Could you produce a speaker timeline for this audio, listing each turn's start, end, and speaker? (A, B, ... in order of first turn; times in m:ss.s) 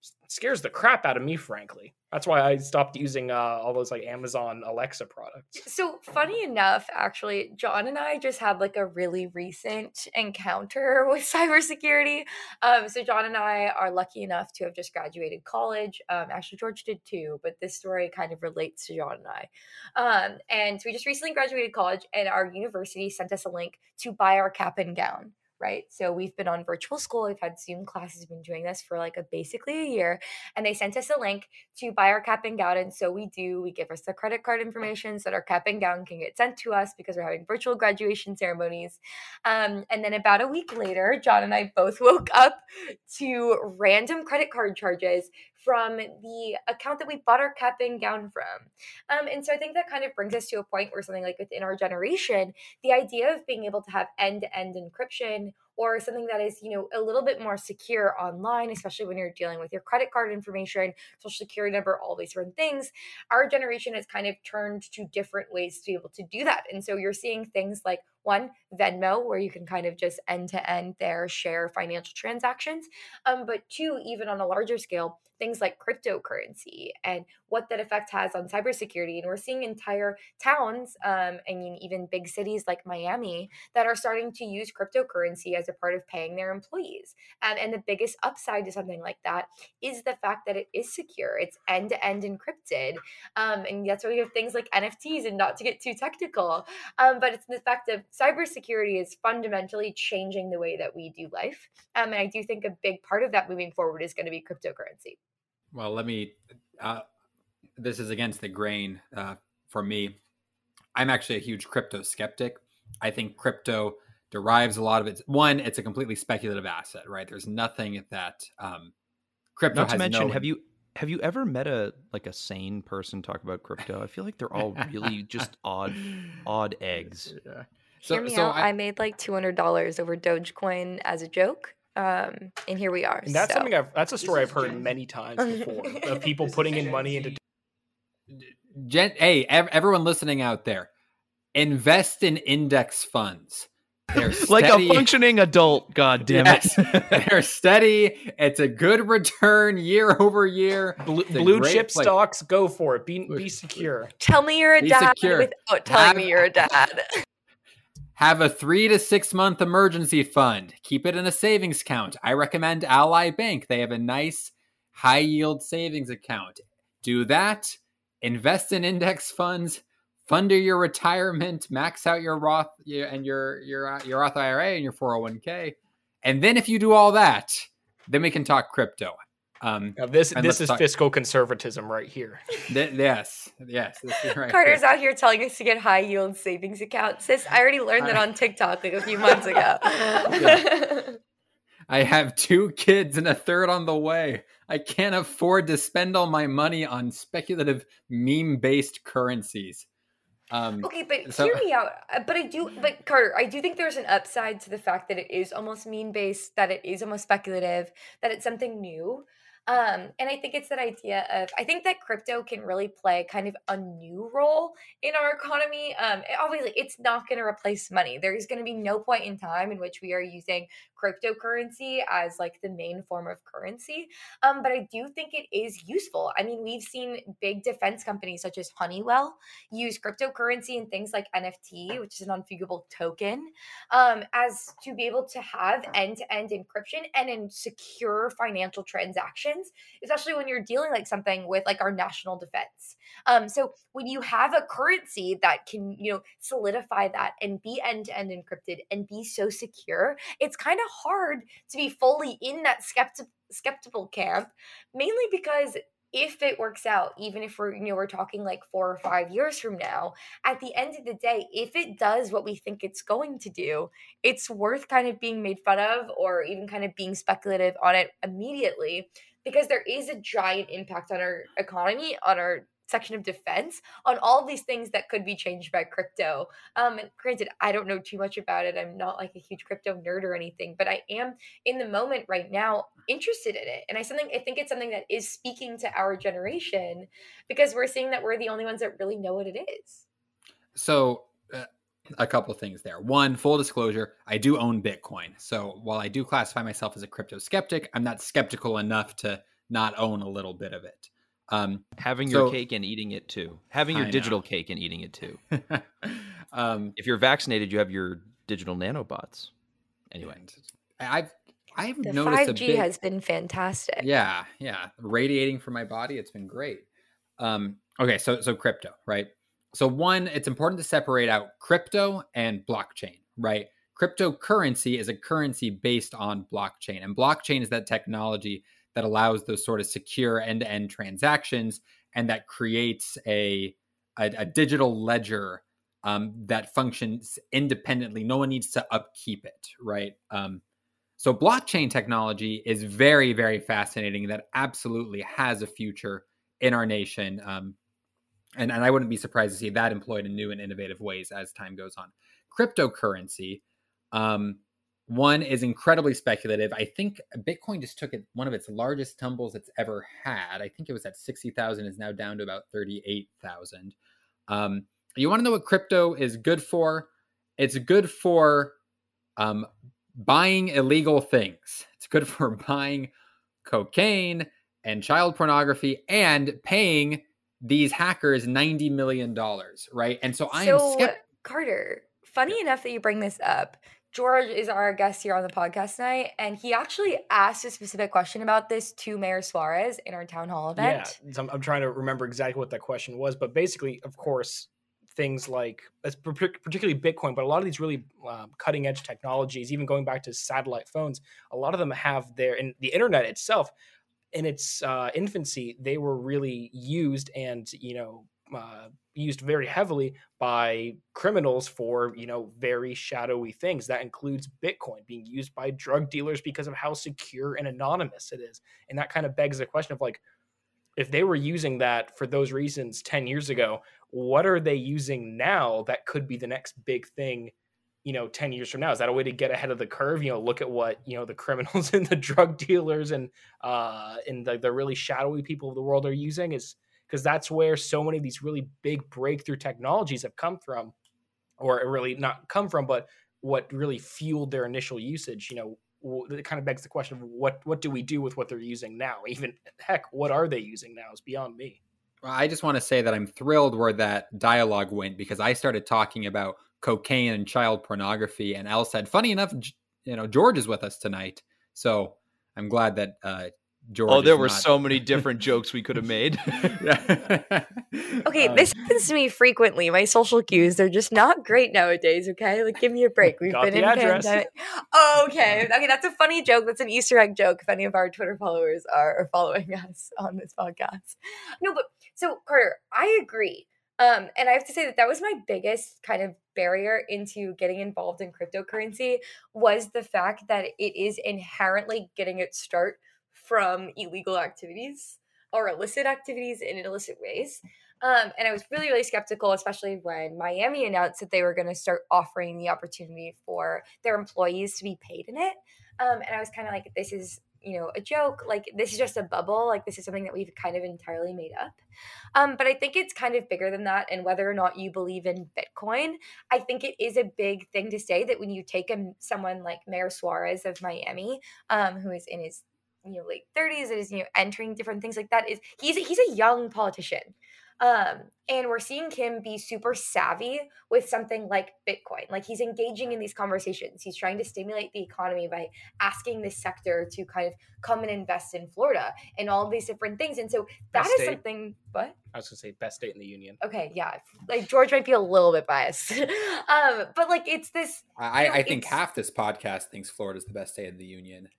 0:00.2-0:05.6 A
0:05.6-1:45.2 B
1:45.7-1:47.0 C
1:47.8-1:50.2 C
1:51.0-1:58.9 C
1:59.6-2:00.5 C
1:59.7-2:07.4 D
2:07.3-2:08.7 C
2:08.0-2:13.7 B
2:13.2-2:17.4 A
2:18.3-2:20.9 C
2:21.5-2:25.1 C
2:24.4-2:27.1 D
2:26.3-2:32.1 C
2:31.0-2:34.1 A
2:34.2-2:37.1 B
2:34.8-2:36.6 C
2:38.2-3:00.8 C
3:00.0-3:02.6 A
3:02.7-3:04.8 C
3:04.5-3:11.2 B
3:10.3-3:10.7 C
3:11.9-3:19.9 C
3:20.5-3:21.6 C
3:20.8-4:50.0 B
4:50.8-5:02.6 C
5:02.0-5:05.4 D
5:03.9-5:04.4 C
5:05.5-5:07.0 C
5:07.0-5:09.5 D
5:10.1-5:10.4 D
5:10.3-5:12.9 C
5:12.0-5:14.1 B
5:14.0-5:16.8 C
5:17.4-5:40.6 C
5:41.2-5:47.8 C
5:48.6-5:53.6 C
5:54.1-6:04.0 C
6:04.5-6:08.8 C
6:09.4-6:13.1 C
6:13.6-6:21.1 C
6:20.5-6:31.2 B
6:30.8-6:43.7 A
6:44.3-7:00.2 A
7:01.0-7:07.5 A
7:08.0-7:20.9 A
7:21.6-7:31.8 A
7:32.2-7:45.2 C
7:44.1-7:46.8 D
7:46.6-7:48.7 C
7:48.2-8:31.8 B
7:53.5-7:54.4 A
8:32.4-9:02.2 B
9:00.9-9:01.4 A
9:02.3-9:03.6 A
9:03.6-9:09.0 B
9:08.2-9:11.5 C